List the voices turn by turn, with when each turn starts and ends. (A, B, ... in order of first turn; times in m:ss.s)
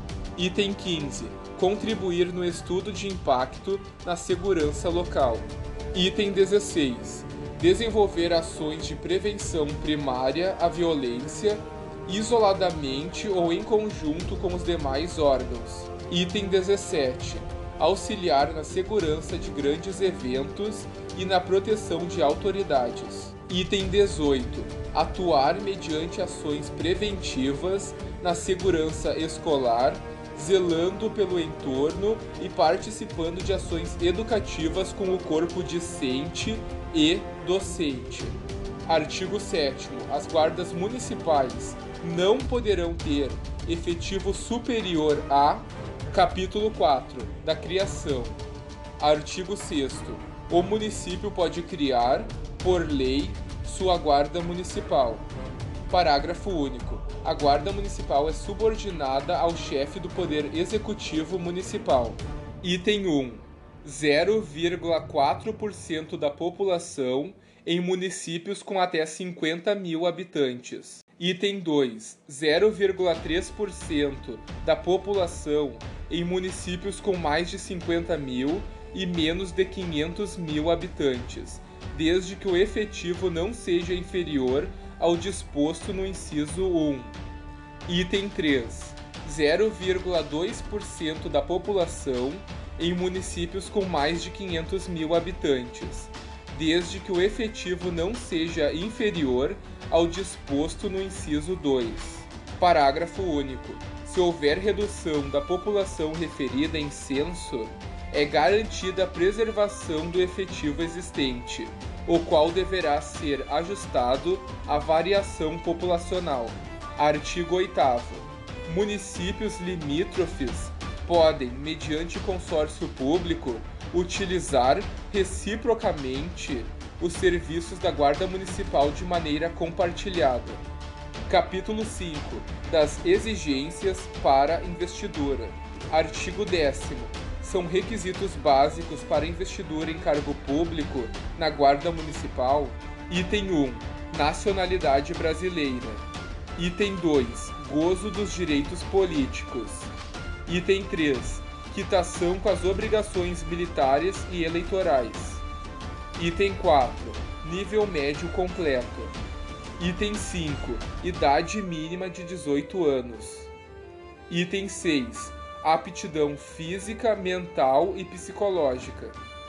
0:00.4-0:48.4 A
0:49.0-0:55.3 A
0:55.9-1:27.2 A
1:27.8-2:10.6 A
2:11.3-2:29.9 A
2:30.4-2:35.4 A
2:36.2-2:39.2 A
2:39.8-2:43.5 A
2:44.3-2:49.2 A